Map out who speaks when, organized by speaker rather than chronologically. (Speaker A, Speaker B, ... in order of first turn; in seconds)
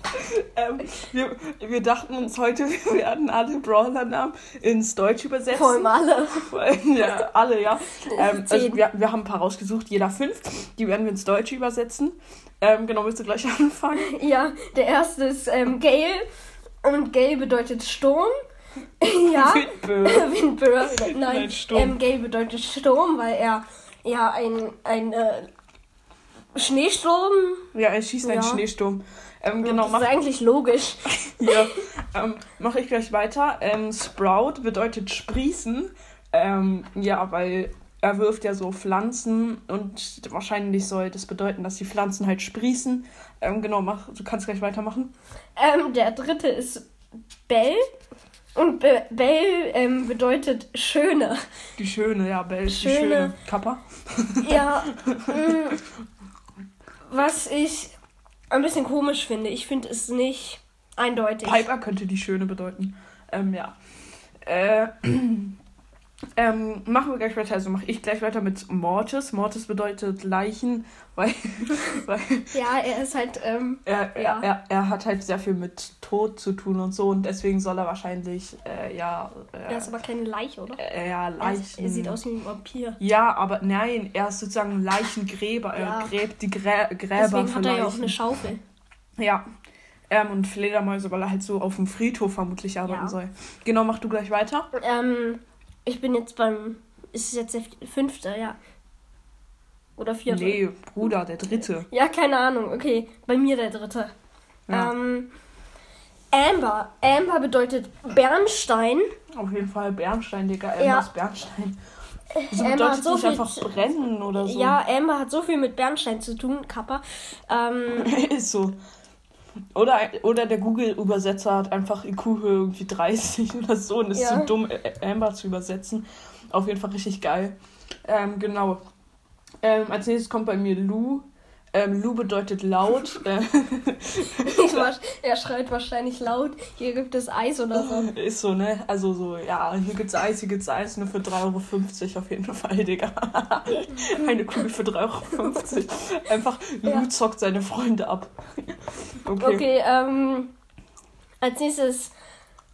Speaker A: 0.1-14.1, 19.3-20.3, 20.8-22.0, 27.7-30.2, 31.4-45.1, 51.8-55.3, 61.4-63.8, 64.4-65.5, 66.4-72.6, 73.8-79.9, 80.8-82.2, 83.0-88.2, 89.2-89.4, 90.1-94.7, 100.3-101.9, 109.3-111.8, 112.5-114.8, 118.0-118.8, 119.7-128.8, 129.6-134.9, 137.7-149.7
Speaker B: 5.5-6.5, 8.1-8.8, 14.0-16.2, 16.8-18.3, 19.0-25.5, 26.5-27.7, 28.2-28.6, 29.6-31.7, 45.5-46.9, 47.5-47.9, 48.5-51.4, 52.6-53.3, 54.4-55.8, 57.1-57.9, 58.5-61.7, 72.5-74.5, 79.7-80.8, 81.4-83.0, 85.8-86.1, 87.1-88.6, 92.8-93.1, 94.7-98.6, 100.0-100.6, 101.9-104.1, 104.7-105.3, 106.3-109.0, 110.8-111.1, 112.3-113.7, 114.3-118.1, 124.1-124.5, 134.3-138.1, 149.4-150.5, 151.4-152.1